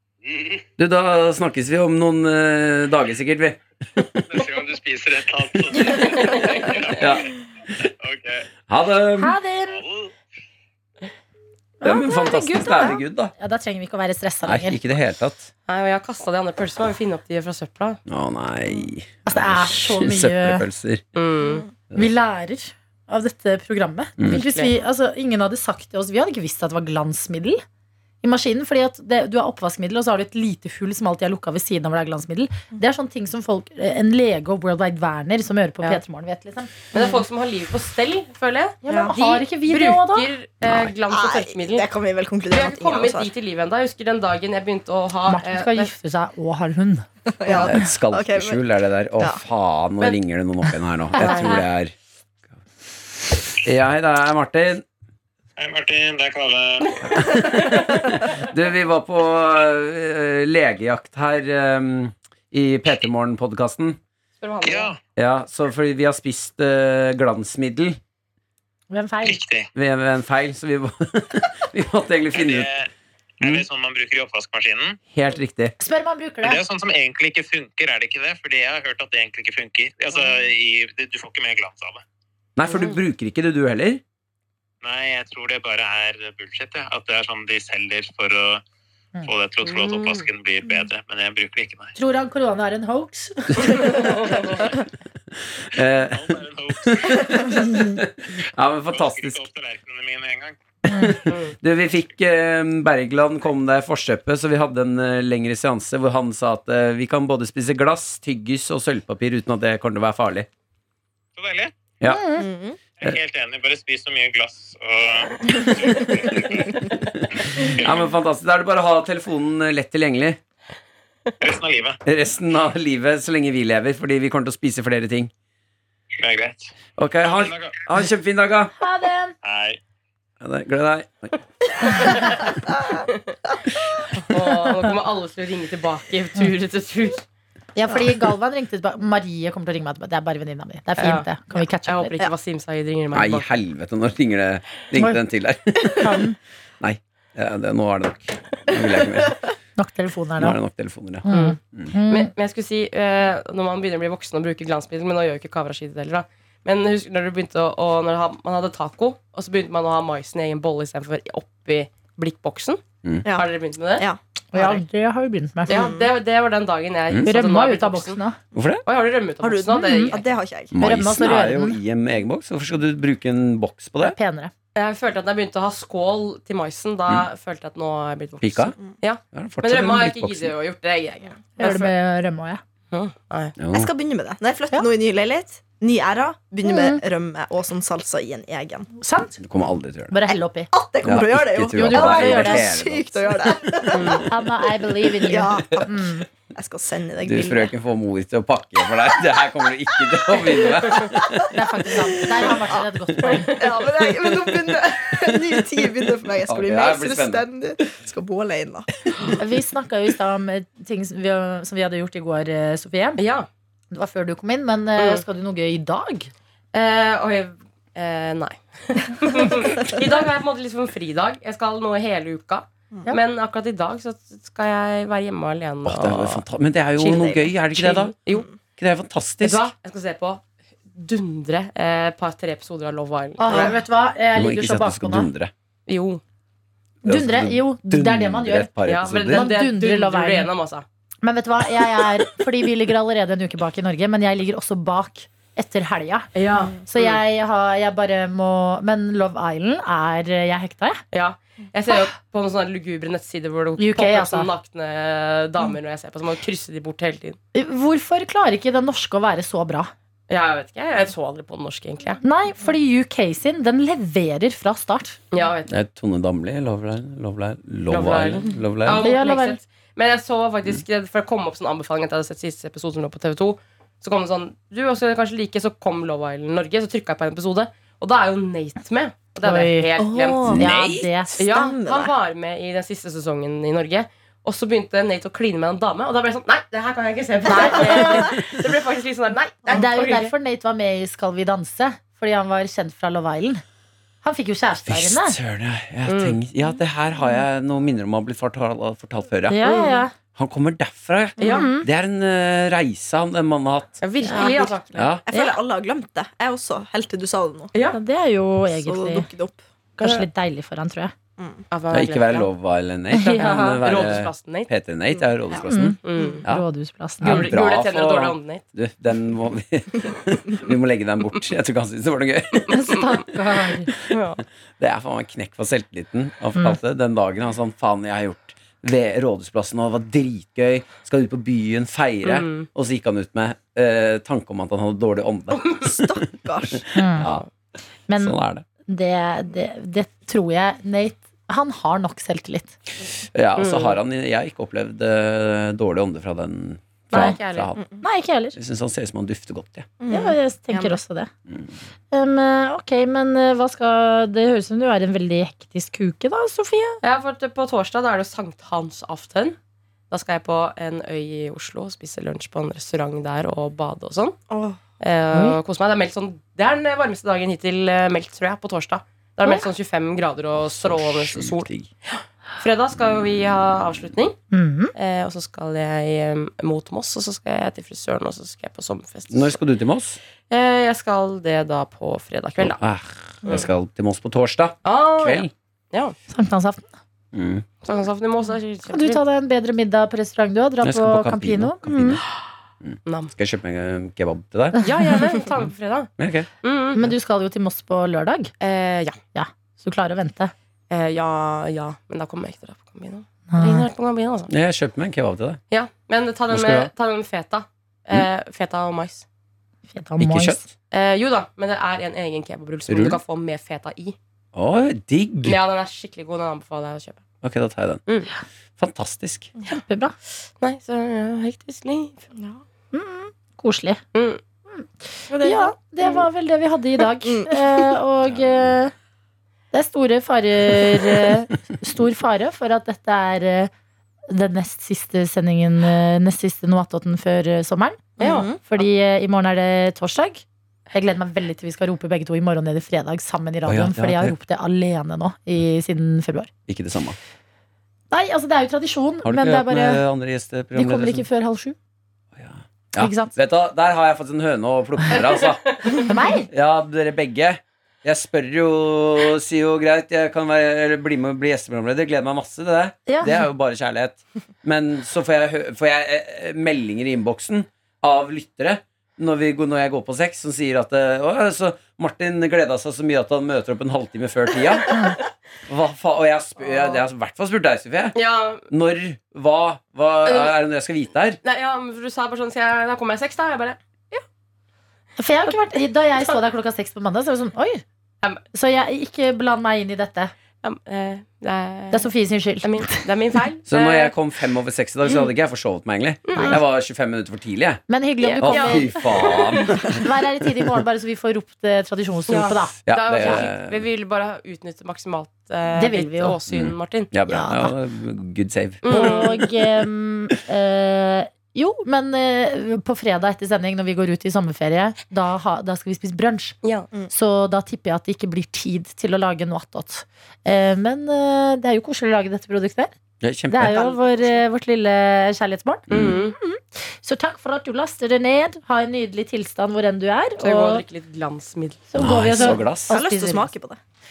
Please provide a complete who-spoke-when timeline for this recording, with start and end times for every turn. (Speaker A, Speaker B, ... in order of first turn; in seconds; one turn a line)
Speaker A: 0.2-0.6
Speaker B: 0.8-4.5
Speaker A: 4.3-7.2
Speaker C: 6.3-6.7
Speaker B: 6.9-7.9
Speaker A: 8.0-8.5
Speaker B: 8.7-9.4
Speaker D: 9.2-9.8
Speaker A: 9.7-10.1
Speaker D: 11.8-14.8
Speaker B: 11.8-13.3
Speaker B: 14.4-15.5
Speaker C: 15.7-18.0
Speaker B: 18.1-21.0
Speaker D: 19.3-20.6
Speaker C: 21.1-21.6
Speaker E: 21.4-21.7
Speaker D: 21.9-27.6
Speaker C: 24.2-24.7
Speaker D: 28.2-36.9
Speaker C: 36.9-41.9
Speaker D: 38.9-40.3
Speaker E: 38.9-39.1
Speaker B: 40.6-40.9
Speaker E: 41.1-43.3
Speaker C: 42.5-45.9
Speaker D: 45.3-47.9
Speaker E: 47.4-48.6
Speaker B: 47.5-52.0
Speaker C: 51.2-51.6
Speaker D: 51.2-51.5
Speaker B: 53.6-54.8
Speaker F: 55.6-57.4
Speaker B: 57.2-64.0
Speaker C: 57.3-57.9
Speaker C: 64.4-65.0
Speaker F: 64.6-65.0
Speaker B: 65.2-68.0
Speaker D: 68.9-69.4
Speaker F: 69.2-69.7
Speaker B: 69.7-72.7
Speaker F: 72.3-72.9
Speaker B: 73.4-73.7
Speaker F: 73.4-75.0
Speaker B: 75.1-75.8
Speaker D: 75.8-76.6
Speaker F: 76.4-82.0
Speaker B: 82.6-84.0
Speaker F: 84.8-88.6
Speaker F: 89.2-92.0
Speaker C: 89.6-90.3
Speaker D: 92.0-94.5
Speaker B: 95.6-99.4
Speaker F: 96.1-97.8
Speaker F: 98.9-100.6
Speaker B: 100.9-110.5
Speaker D: 100.9-101.3
Speaker C: 101.3-101.5
Speaker F: 111.4-111.7
Speaker B: 112.0-112.3
Speaker D: 112.1-112.5
Speaker E: 112.4-112.8
Speaker F: 113.0-116.9
Speaker B: 117.2-120.4
Speaker F: 117.5-118.0
Speaker F: 121.4-122.0
Speaker B: 122.0-125.3
Speaker F: 126.2-126.7
Speaker B: 127.0-128.7
Speaker F: 127.3-127.8
Speaker D: 128.8-129.3
Speaker F: 129.4-129.8
Speaker B: 130.4-131.4
Speaker C: 134.1-137.2
Speaker D: 137.8-142.2
Speaker C: 141.0-141.3
Speaker C: 141.8-143.5
Speaker B: 143.1-146.3
Speaker D: 146.0-146.4
Speaker B: 146.8-149.4
Speaker D: 149.8-150.6
Speaker B: 150.4-151.9
Speaker D: 151.2-152.3
Speaker C: 151.3-164.8
Speaker E: 163.2-164.2
Speaker D: 164.5-165.9
Speaker C: 165.7-168.2
Speaker E: 165.7-166.1
Speaker D: 167.2-168.4
Speaker B: 168.5-168.8
Speaker C: 168.9-170.3
Speaker E: 169.4-170.8
Speaker D: 169.7-170.2
Speaker B: 170.7-174.2
Speaker D: 170.8-171.8
Speaker D: 174.0-174.5
Speaker C: 174.8-181.9
Speaker B: 178.4-178.8
Speaker B: 179.3-180.5
Speaker D: 181.6-182.6
Speaker C: 182.9-183.6
Speaker B: 183.6-183.9
Speaker E: 183.7-188.9
Speaker D: 186.7-187.0
Speaker D: 189.0-189.4
Speaker B: 189.4-190.2
Speaker D: 190.1-190.7
Speaker E: 190.7-194.4
Speaker B: 191.0-193.5
Speaker D: 191.7-192.7
Speaker C: 193.9-194.3
Speaker D: 194.1-196.3
Speaker E: 195.2-197.7
Speaker B: 197.2-201.4
Speaker D: 201.5-203.7
Speaker E: 202.3-202.8
Speaker E: 203.4-209.0
Speaker B: 206.5-207.5
Speaker D: 209.3-213.2
Speaker C: 213.2-213.5
Speaker D: 213.9-216.3
Speaker C: 215.0-215.2
Speaker C: 216.7-226.4
Speaker B: 225.8-228.2
Speaker C: 227.0-228.5
Speaker E: 228.3-228.6
Speaker B: 228.8-229.7
Speaker C: 229.4-230.4
Speaker C: 230.9-233.7
Speaker D: 233.4-235.3
Speaker E: 233.5-233.8
Speaker B: 234.3-235.5
Speaker C: 235.9-236.2
Speaker B: 237.0-239.5
Speaker D: 237.0-238.7
Speaker C: 238.8-240.8
Speaker D: 239.3-240.5
Speaker D: 241.2-246.3
Speaker C: 246.3-247.2
Speaker D: 246.9-251.0
Speaker C: 251.1-257.4
Speaker D: 253.8-254.5
Speaker D: 257.5-259.9
Speaker C: 260.3-262.2
Speaker D: 262.2-265.2
Speaker C: 265.3-265.8
Speaker B: 265.7-269.1
Speaker C: 267.9-280.5
Speaker D: 268.9-269.6
Speaker D: 279.4-279.9
Speaker E: 280.0-280.7
Speaker B: 280.5-281.1
Speaker D: 280.5-281.4
Speaker E: 281.4-282.1
Speaker C: 281.4-290.3
Speaker D: 287.5-288.4
Speaker E: 287.9-288.3
Speaker D: 289.7-293.6
Speaker D: 294.2-295.4
Speaker B: 294.9-299.7
Speaker C: 296.1-296.4
Speaker D: 299.5-300.1
Speaker C: 299.7-300.0
Speaker B: 300.4-304.0
Speaker C: 301.4-301.7
Speaker D: 301.5-301.9
Speaker C: 304.0-305.2
Speaker D: 304.2-304.5
Speaker E: 304.3-307.7
Speaker B: 304.9-305.2
Speaker D: 305.3-305.6
Speaker C: 307.7-308.0
Speaker D: 307.9-309.3
Speaker E: 308.7-309.6
Speaker D: 310.0-311.1
Speaker C: 310.0-310.3
Speaker E: 311.4-311.6
Speaker C: 311.7-312.5
Speaker B: 311.9-316.7
Speaker C: 313.1-314.7
Speaker D: 313.1-314.0
Speaker D: 315.6-317.6
Speaker C: 316.0-316.4
Speaker B: 317.2-323.1
Speaker C: 317.2-318.6
Speaker C: 322.7-323.0
Speaker D: 322.7-323.9
Speaker C: 324.1-324.4
Speaker B: 324.8-337.4
Speaker C: 332.2-332.7
Speaker E: 335.8-336.9
Speaker D: 336.9-337.3
Speaker D: 338.1-338.4
Speaker B: 338.2-338.6
Speaker D: 338.9-342.8
Speaker B: 343.3-347.8
Speaker C: 343.6-344.0
Speaker C: 347.1-347.7
Speaker E: 347.8-348.0
Speaker D: 348.0-348.6
Speaker B: 348.6-349.9
Speaker E: 350.0-351.0
Speaker D: 350.1-351.3
Speaker D: 352.1-357.0
Speaker C: 357.0-359.6
Speaker C: 360.1-364.4
Speaker E: 364.5-364.8
Speaker C: 365.0-374.4
Speaker D: 365.3-365.6
Speaker B: 370.6-371.9
Speaker D: 374.5-374.9
Speaker C: 374.9-379.6
Speaker B: 379.3-380.2
Speaker C: 380.5-382.8
Speaker B: 382.6-385.5
Speaker C: 383.4-383.7
Speaker C: 384.8-386.2
Speaker D: 386.3-386.9
Speaker B: 387.3-387.6
Speaker C: 387.8-389.2
Speaker D: 388.9-392.2
Speaker B: 390.8-392.2
Speaker B: 392.8-394.8
Speaker C: 393.1-393.3
Speaker C: 394.8-396.1
Speaker B: 396.2-396.5
Speaker C: 396.6-397.0
Speaker D: 396.9-398.5
Speaker C: 398.6-399.2
Speaker D: 399.3-400.5
Speaker C: 400.9-404.5
Speaker D: 403.5-403.9
Speaker B: 404.5-405.6
Speaker C: 405.7-409.2
Speaker B: 406.5-406.9
Speaker D: 409.9-410.7
Speaker B: 410.2-410.6
Speaker C: 410.9-414.2
Speaker B: 412.9-413.2
Speaker B: 414.5-415.6
Speaker C: 415.4-417.2
Speaker B: 417.4-418.0
Speaker B: 418.8-419.5
Speaker D: 419.7-420.1
Speaker C: 420.6-422.3
Speaker E: 422.4-422.6
Speaker D: 422.9-424.0
Speaker C: 424.1-424.4
Speaker D: 424.7-428.9
Speaker C: 425.3-426.2
Speaker E: 427.2-427.7
Speaker B: 428.3-428.6
Speaker D: 429.7-433.7
Speaker D: 434.3-446.5
Speaker E: 438.2-438.6
Speaker C: 438.2-438.5
Speaker B: 443.6-444.4
Speaker B: 446.7-447.2
Speaker D: 448.1-450.0
Speaker B: 449.2-451.3
Speaker D: 450.7-451.8
Speaker B: 452.4-481.4
Speaker D: 453.0-453.3
Speaker C: 455.4-456.0
Speaker D: 456.1-456.5
Speaker D: 463.1-463.5
Speaker C: 476.6-477.0
Speaker C: 478.1-478.7
Speaker C: 480.2-480.6
Speaker C: 481.4-484.2
Speaker D: 485.2-487.8
Speaker D: 488.5-490.3
Speaker C: 490.6-492.1
Speaker D: 491.9-493.1
Speaker C: 492.6-494.1
Speaker B: 493.7-497.8
Speaker C: 496.2-496.6
Speaker D: 497.9-499.4
Speaker C: 498.2-499.8
Speaker B: 498.4-500.0
Speaker D: 499.9-503.4
Speaker C: 502.3-507.1
Speaker B: 502.9-503.8
Speaker D: 505.8-506.4
Speaker B: 506.5-509.2
Speaker D: 507.3-507.7
Speaker C: 508.8-509.4
Speaker D: 508.9-516.6
Speaker D: 517.1-522.9
Speaker B: 523.2-523.8
Speaker D: 523.5-530.9
Speaker E: 523.7-524.4
Speaker B: 525.9-526.2
Speaker C: 525.9-526.4
Speaker C: 530.4-531.9
Speaker D: 531.9-533.5
Speaker B: 532.0-532.9
Speaker E: 532.9-533.8